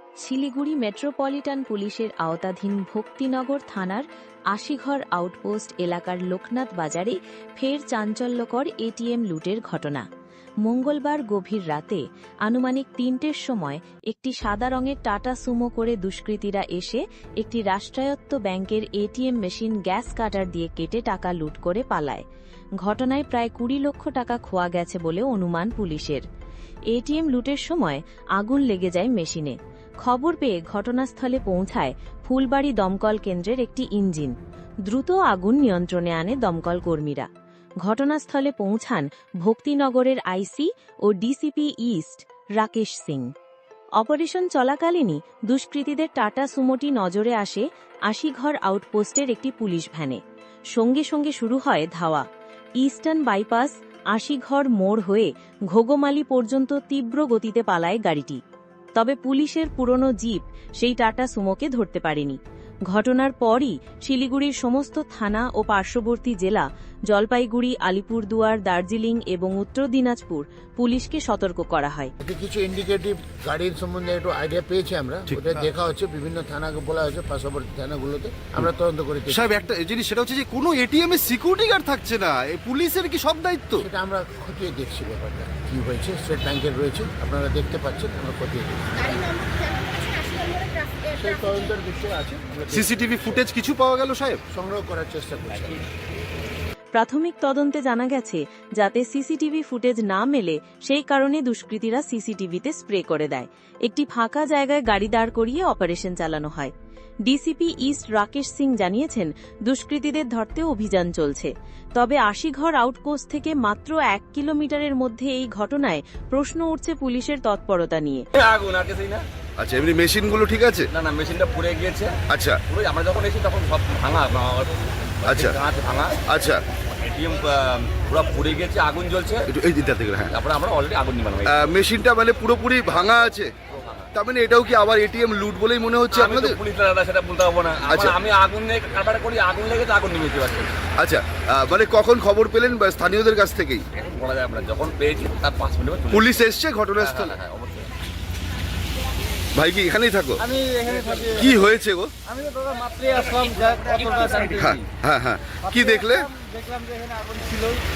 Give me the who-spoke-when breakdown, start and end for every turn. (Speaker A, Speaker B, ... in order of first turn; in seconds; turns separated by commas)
Speaker A: 0.2-10.0, Speaker A: 10.6-22.2, Speaker A: 22.8-26.2, Speaker A: 26.9-34.4, Speaker A: 34.9-37.3, Speaker A: 37.8-43.3, Speaker A: 44.0-50.2, Speaker A: 50.8-52.2, Speaker A: 52.8-58.4, Speaker A: 59.0-62.4, Speaker A: 62.9-72.1, Speaker B: 72.2-79.6, Speaker C: 79.3-83.9, Speaker B: 83.8-89.3, Speaker D: 89.0-91.7, Speaker B: 91.2-93.3, Speaker C: 92.7-94.4, Speaker B: 94.5-96.2, Speaker A: 97.0-106.7, Speaker A: 107.3-118.2, Speaker E: 118.4-119.2, Speaker C: 119.6-120.9, Speaker E: 120.9-122.1, Speaker C: 122.3-122.6, Speaker E: 122.7-126.2, Speaker C: 125.3-125.6, Speaker C: 126.3-126.6, Speaker E: 127.0-129.5, Speaker C: 129.5-130.3, Speaker E: 130.3-131.7, Speaker C: 131.5-133.5, Speaker E: 133.8-134.1, Speaker C: 134.1-136.6, Speaker E: 136.1-140.8, Speaker C: 137.9-138.2, Speaker C: 141.0-143.8, Speaker E: 144.0-146.4, Speaker C: 146.1-147.4, Speaker E: 147.0-147.9, Speaker C: 149.6-150.4, Speaker F: 150.4-151.5, Speaker C: 151.4-152.1, Speaker F: 152.3-154.7, Speaker E: 154.0-154.8, Speaker C: 154.6-156.3, Speaker F: 155.6-157.8